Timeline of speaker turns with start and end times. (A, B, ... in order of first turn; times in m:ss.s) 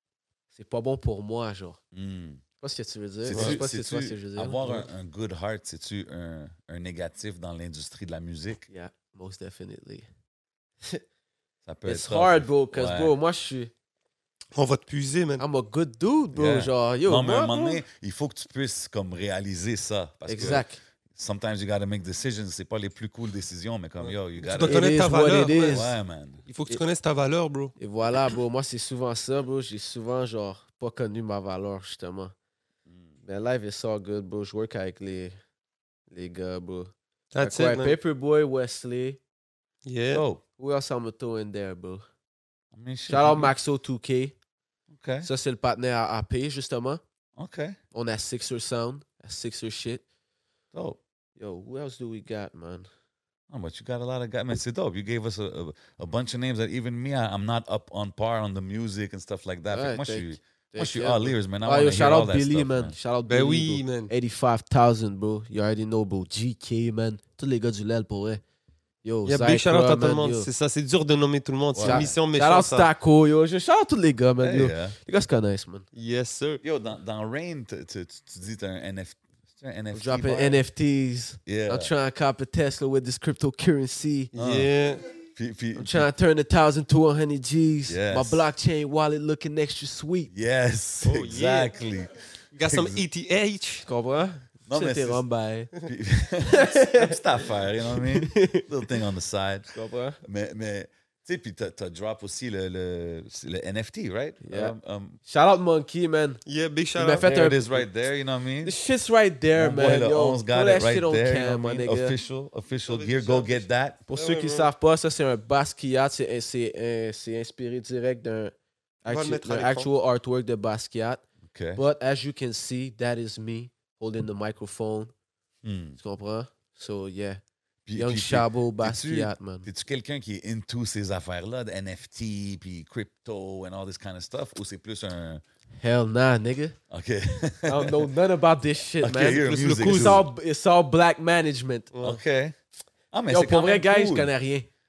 0:00.5-0:01.8 A
0:01.9-0:02.4 B
0:02.6-0:04.9 A
0:03.2-0:08.6 B
0:03.3-0:03.6 C
0:08.7-0:10.0 A
0:11.6-0:13.1 B
0:11.8-0:13.7 A
0:14.5-0:15.4 C
0:15.4-0:17.8 A
0:16.3-0:24.9 B
0:20.3-0:20.8 A
0:24.4-0:25.8 C
0:24.6-0:25.9 A
0:25.6-0:26.4 B
0:26.5-0:27.7 C
0:27.8-0:32.3 A
0:33.2-0:35.3 A
0:36.1-0:39.2 A
0:37.3-0:38.0 C
0:39.8-0:40.2 C
0:40.1-0:40.4 B
0:40.6-0:42.0 A
0:42.7-0:43.5 B
0:43.1-0:44.4 A
0:44.9-0:45.3 B
0:45.2-0:47.0 A
0:47.4-0:47.8 B
0:47.9-0:50.0 A
0:50.7-0:51.0 B
0:51.4-0:52.9 A
0:53.5-1:02.9 B
0:59.7-1:08.4 A
1:03.3-1:04.1 C
1:09.0-1:10.5 A
1:09.2-1:12.9 C
1:11.7-1:12.2 B
1:11.8-1:15.8 A
1:14.4-1:15.0 B
1:15.9-1:16.6 C
1:16.6-1:20.6 B
1:19.9-1:24.3 A
1:21.4-1:21.9 B
1:24.3-1:25.0 C
1:24.3-1:24.7 B
1:25.3-1:26.1 B
1:25.7-1:30.3 A
1:27.9-1:28.4 B
1:30.3-1:33.0 B
1:31.0-1:31.7 C
1:32.5-1:33.8 C
1:33.8-1:35.7 A
1:34.7-1:35.2 B
1:35.8-1:39.7 B
1:36.4-1:38.7 A
1:39.7-1:40.2 A
1:40.2-1:45.2 B
1:44.4-1:46.4 A
1:46.4-1:47.3 C
1:47.0-1:47.9 A
1:47.2-1:48.7 B
1:48.6-1:52.2 A
1:49.5-1:54.0 B
1:52.8-1:54.7 C
1:54.1-2:01.2 A
1:59.1-1:59.9 C
2:01.5-2:01.8 B
2:01.7-2:05.1 A
2:05.6-2:06.0 B
2:06.0-2:07.4 A
2:07.8-2:15.4 B
2:07.9-2:09.7 A
2:15.8-2:16.8 A
2:16.9-2:18.0 B
2:17.7-2:21.9 A
2:19.0-2:20.3 B
2:19.2-2:20.2 C
2:21.9-2:22.2 C
2:22.0-2:22.5 B
2:23.1-2:24.3 B
2:23.3-2:24.7 A